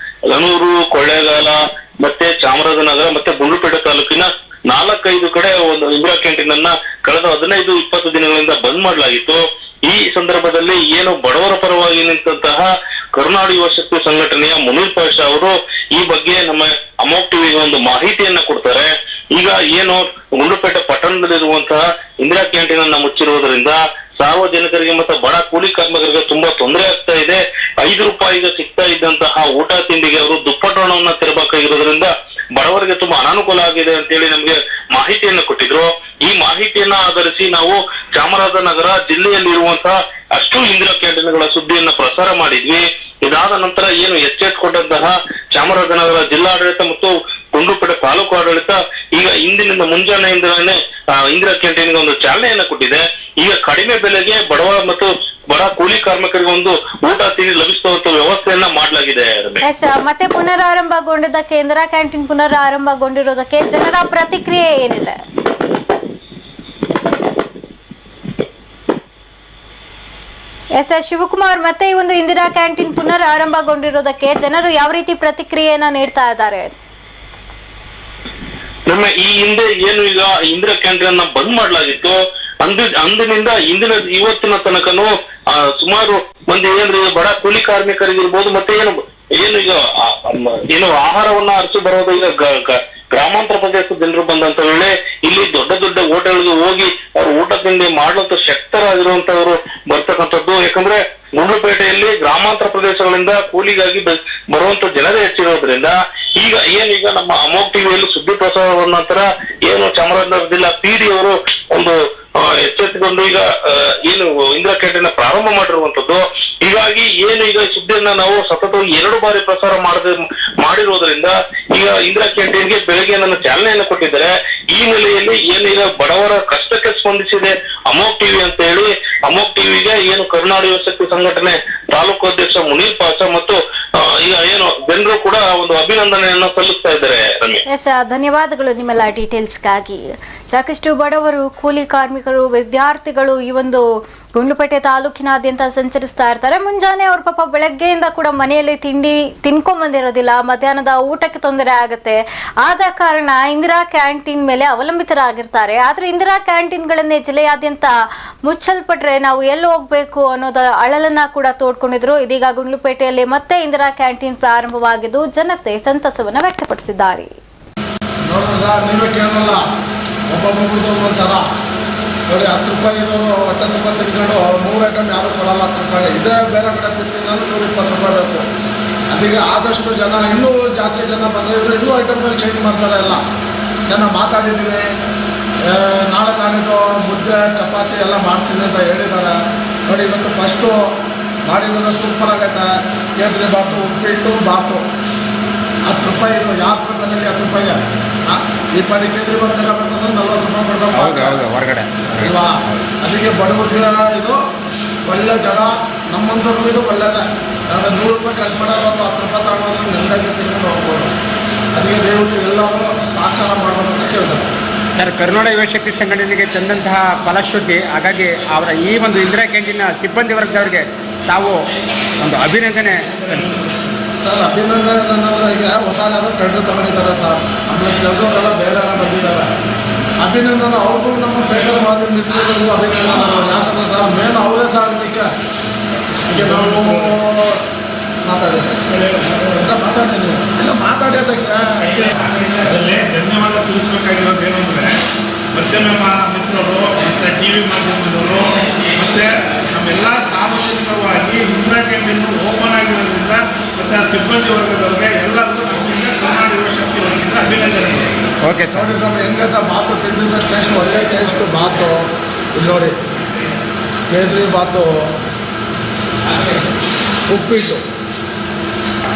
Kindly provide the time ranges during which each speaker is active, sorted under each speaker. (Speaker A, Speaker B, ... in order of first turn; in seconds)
Speaker A: 0.3-59.6, 78.9-137.6
Speaker B: 59.6-65.2, 70.8-76.7, 137.7-143.8, 144.4-157.9, 158.5-167.3
Speaker C: 168.3-169.7, 170.3-171.4, 172.3-178.5, 179.1-183.2, 183.9-184.9, 185.6-190.9, 191.5-194.8, 195.9-201.4, 202.2-204.4, 205.1-211.1, 211.7-214.5, 224.2-229.5, 230.2-235.3, 236.3-237.6, 238.2-238.8, 239.5-242.0, 258.7-263.0, 264.1-265.1, 267.3-267.8
Speaker D: 200.9-202.9, 215.0-221.6, 222.2-223.7, 258.4-258.9
Speaker E: 236.3-237.2, 238.9-239.5, 242.0-245.0, 245.5-258.3